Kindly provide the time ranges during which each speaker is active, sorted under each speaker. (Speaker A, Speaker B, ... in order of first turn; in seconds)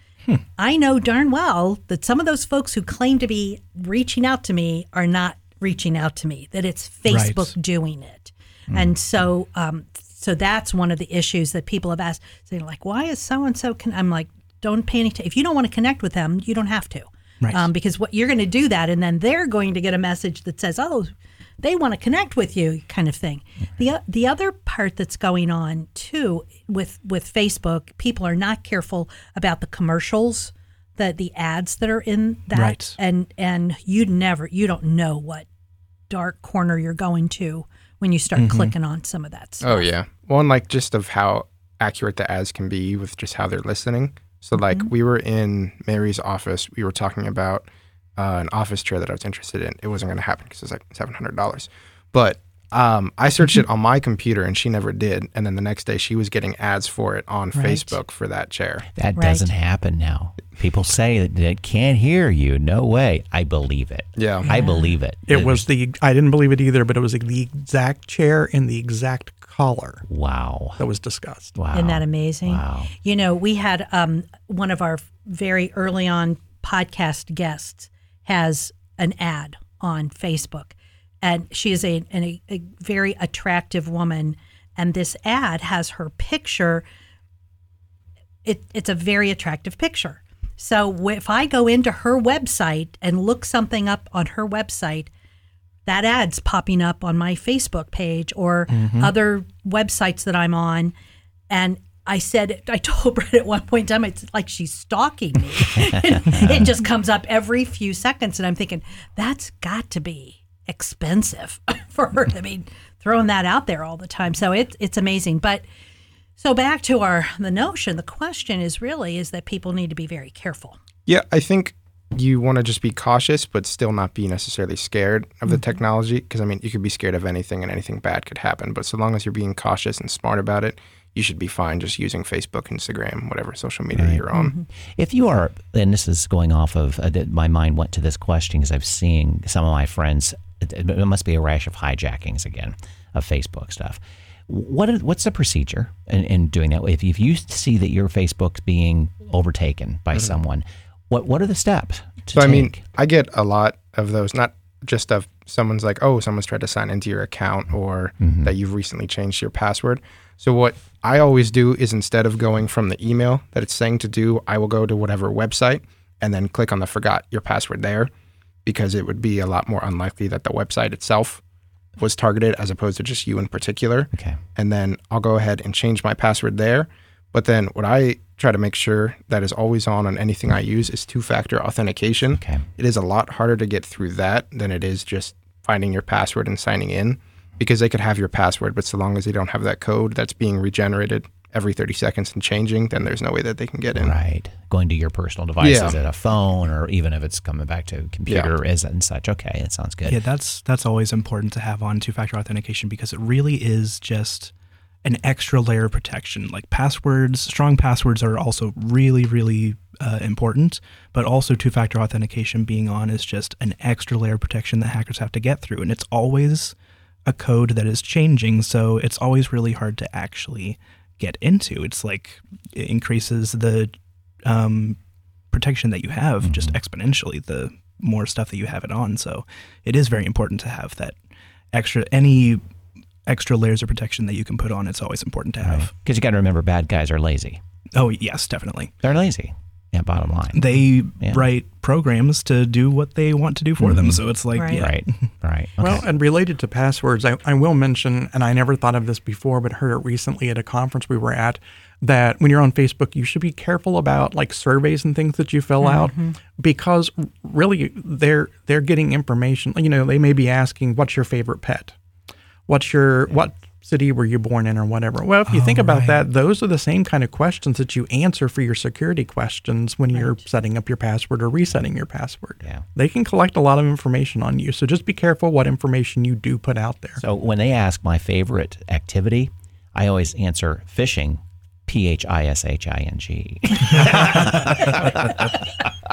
Speaker A: 0.6-35.5, 36.1-39.9, 57.5-58.0, 59.2-59.5, 64.5-65.0, 71.7-86.8, 88.5-95.1, 95.9-100.9, 101.5-115.7, 116.4-120.8, 134.3-134.7, 244.6-244.9, 255.8-256.4
Speaker B: 7.1-7.5, 17.4-17.7, 32.5-33.0, 38.4-38.7, 98.7-99.1, 200.1-204.5, 205.0-225.0, 225.5-231.2, 231.7-232.6, 233.3-235.9, 237.9-238.9, 240.5-245.3, 265.5-266.1
Speaker C: 39.6-47.7, 48.2-58.9, 64.2-64.5, 121.1-134.6, 152.3-168.1, 168.7-171.4, 172.0-194.2, 195.6-196.0
Speaker D: 59.0-65.7, 70.1-70.8, 71.6-72.9, 134.0-134.2, 135.0-152.8, 158.2-158.5, 174.1-174.4, 182.4-182.6, 194.0-200.2, 226.4-226.8, 235.6-237.6, 239.0-241.4, 243.8-244.2, 244.7-246.1, 277.2-285.9
Speaker E: 65.3-70.0, 70.8-71.5, 245.8-261.9, 262.7-277.2